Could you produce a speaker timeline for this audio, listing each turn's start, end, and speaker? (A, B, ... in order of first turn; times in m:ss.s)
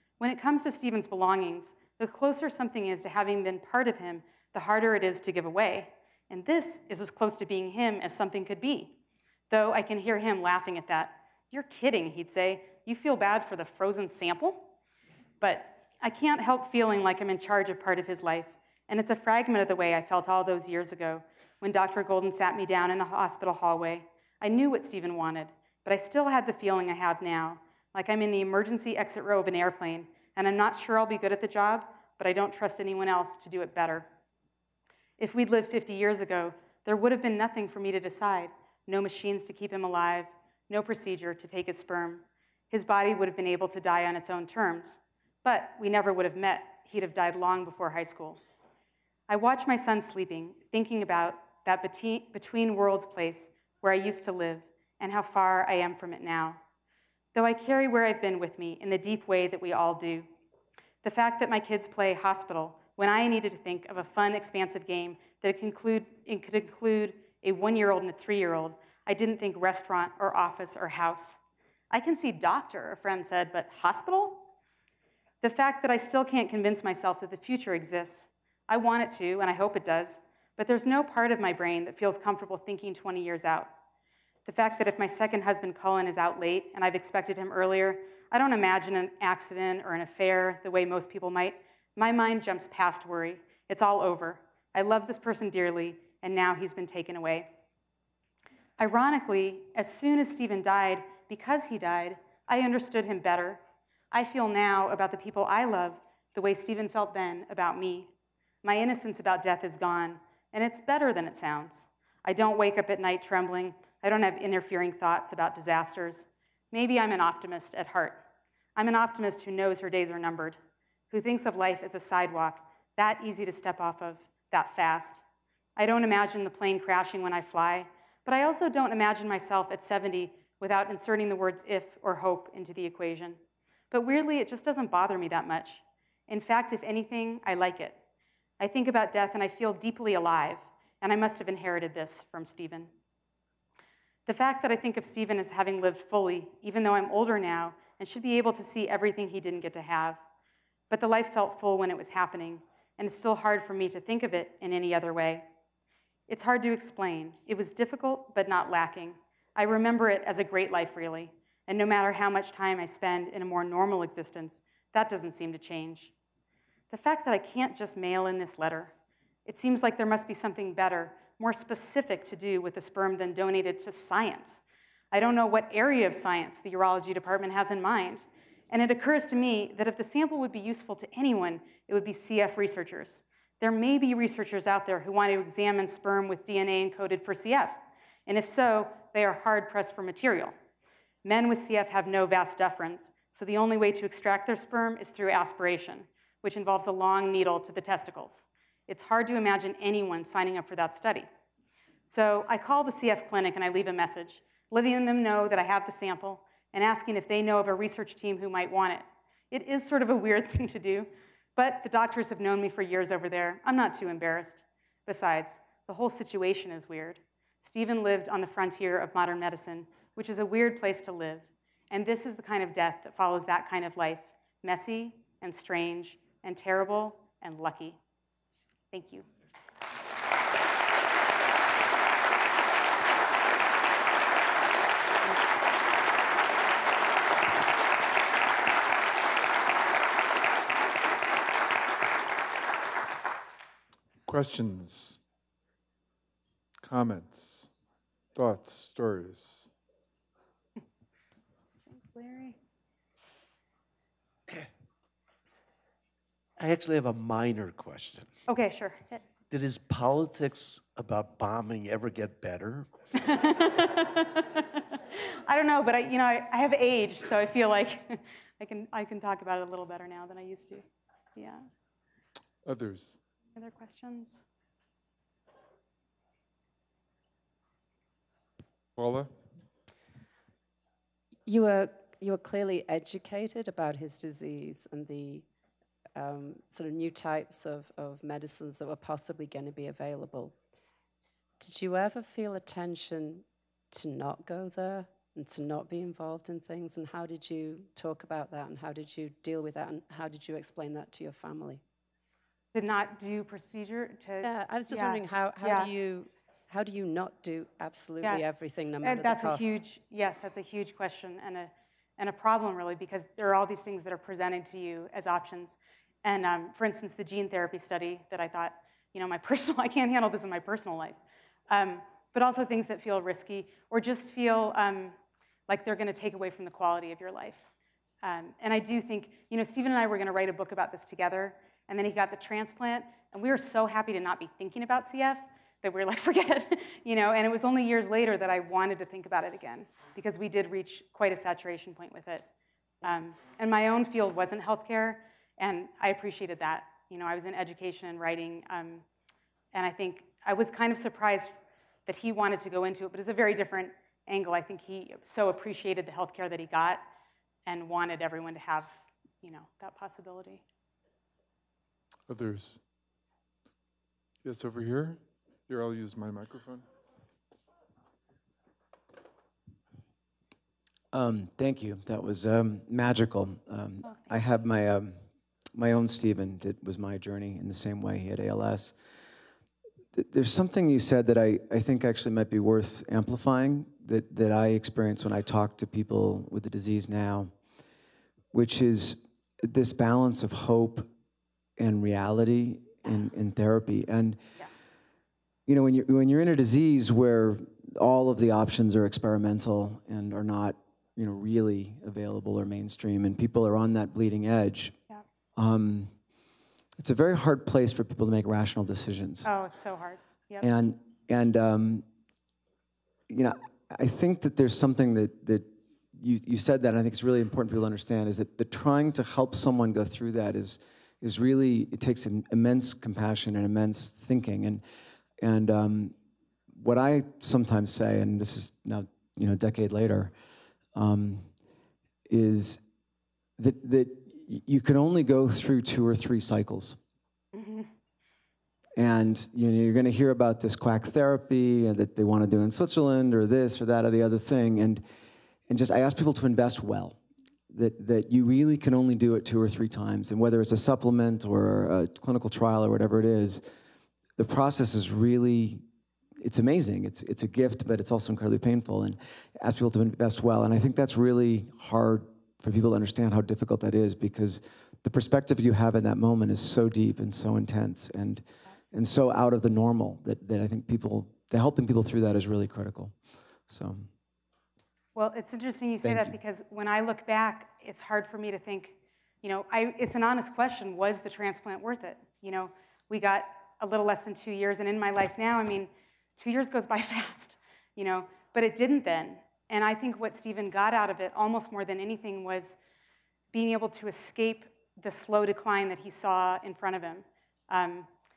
0:00.2-0:08.9 A
0:09.5-0:14.7 A
0:15.4-0:34.1 A
0:35.2-0:48.4 A
0:49.3-0:56.6 A
0:57.3-1:00.3 A
1:01.0-1:11.4 A
1:11.9-1:14.5 A
1:15.4-1:23.7 A
1:24.4-1:37.5 A
1:38.8-1:48.1 A
1:48.6-1:58.2 A
1:58.8-2:00.6 A
2:01.1-2:05.2 A
2:05.8-2:13.4 A
2:13.9-2:18.0 A
2:18.6-2:22.9 A
2:24.2-2:30.2 A
2:30.9-2:35.5 A
2:36.3-2:46.1 A
2:46.9-2:48.9 A
2:49.4-3:10.5 A
3:11.2-3:21.3 A
3:22.1-3:48.0 A
3:48.9-3:49.2 A
4:04.2-4:05.2 B
4:06.8-4:07.7 B
4:08.3-4:09.7 B
4:11.9-4:12.6 A
4:16.6-4:18.4 C
4:18.5-4:19.2 A
4:19.5-4:23.4 C
4:23.2-4:24.5 A
4:25.1-4:30.8 A
4:31.4-4:31.6 A
4:32.6-4:33.2 B
4:33.5-4:34.4 A
4:39.0-4:39.3 B
4:41.4-4:45.4 D
4:46.1-4:50.5 D
4:51.6-5:01.8 D
5:02.7-5:05.9 A
5:04.4-5:09.8 D
5:08.2-5:21.2 A
5:21.7-5:25.2 A
5:25.7-5:27.6 A
5:28.2-5:42.5 A
5:43.0-5:49.0 A
5:49.7-5:51.5 A
5:52.0-5:57.0 A
5:57.6-6:00.6 A
6:02.3-6:02.8 B
6:04.4-6:06.8 B
6:11.1-6:15.2 E
6:15.7-6:18.9 E
6:20.1-6:27.5 E
6:28.5-6:31.1 E
6:31.8-6:34.4 E
6:35.7-6:45.0 E
6:45.6-6:46.1 E
6:47.0-6:49.5 E
6:49.4-6:50.7 A
6:50.6-6:52.0 E
6:53.3-7:04.8 E
7:05.4-7:06.1 E
7:06.7-7:10.3 E
7:10.9-7:11.5 E
7:12.3-7:12.8 E
7:13.6-7:17.0 E
7:17.5-7:17.9 A
7:19.0-7:25.0 E
7:25.7-7:27.2 E
7:27.7-7:33.6 E
7:34.4-7:35.8 E
7:36.4-7:53.1 E
7:53.7-7:54.1 E
7:55.1-8:12.8 A
7:56.0-7:56.3 E
8:13.5-8:18.1 A